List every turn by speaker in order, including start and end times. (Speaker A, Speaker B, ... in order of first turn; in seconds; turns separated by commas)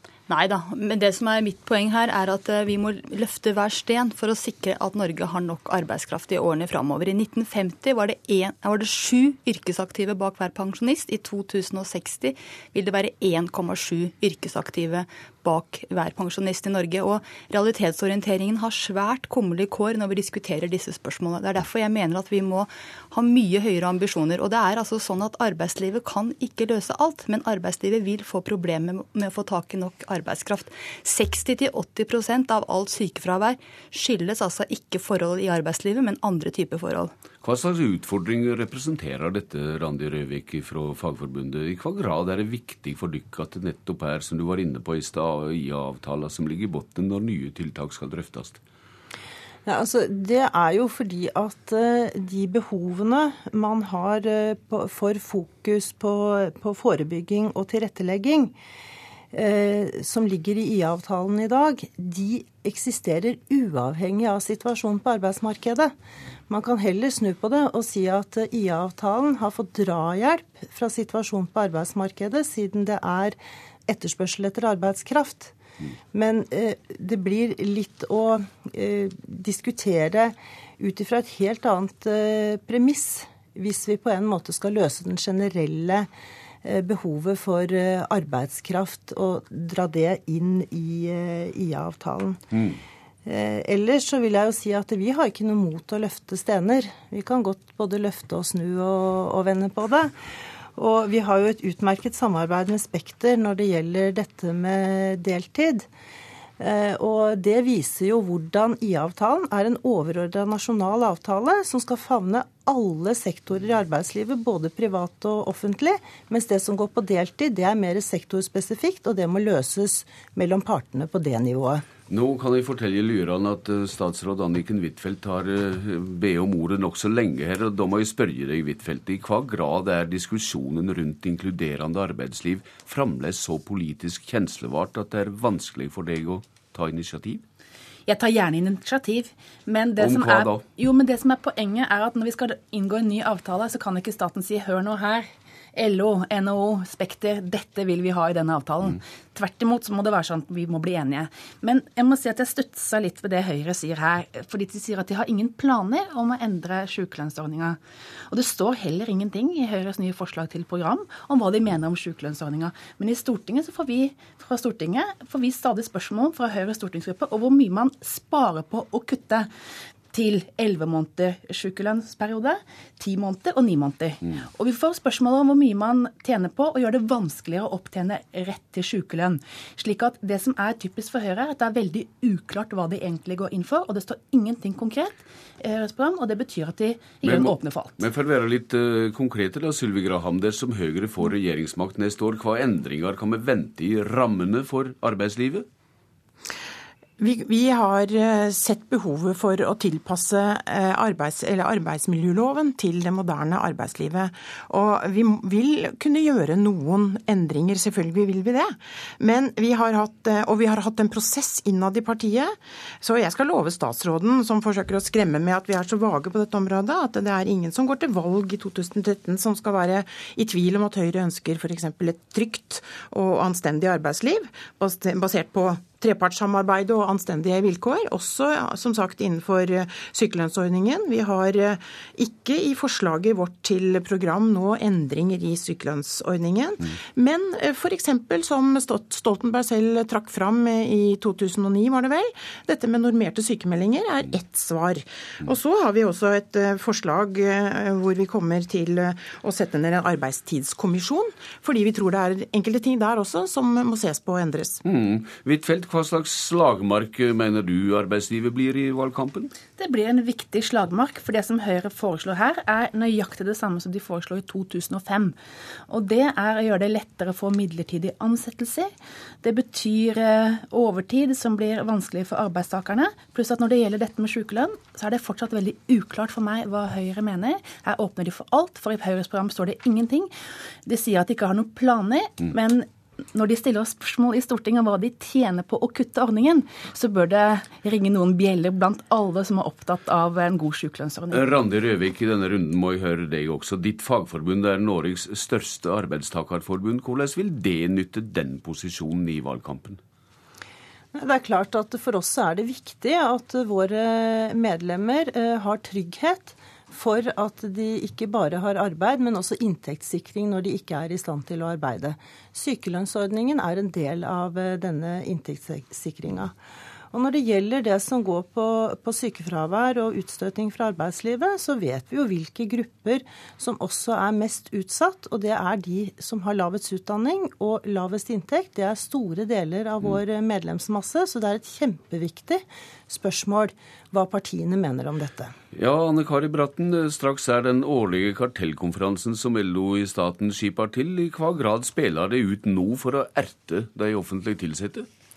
Speaker A: 0.3-37.1, Speaker B: 37.4-48.6, Speaker C: 49.6-58.5, Speaker C: 59.3-65.9, Speaker C: 66.5-75.5, Speaker C: 76.1-86.1, Speaker C: 86.6-92.4, Speaker B: 92.5-92.8, Speaker C: 93.2-100.1, Speaker C: 100.8-105.9, Speaker C: 106.6-121.8, Speaker B: 122.1-137.4, Speaker D: 138.1-157.8, Speaker B: 139.9-140.7, Speaker D: 158.3-169.5, Speaker D: 170.1-188.0, Speaker B: 187.2-195.7, Speaker E: 197.2-212.5, Speaker E: 213.0-254.7, Speaker B: 254.8-259.5, Speaker D: 259.8-265.3, Speaker D: 265.9-268.9, Speaker D: 269.4-280.3, Speaker D: 280.9-291.4, Speaker B: 291.3-300.0, Speaker C: 301.1-316.5, Speaker C: 317.1-335.5, Speaker B: 335.7-345.1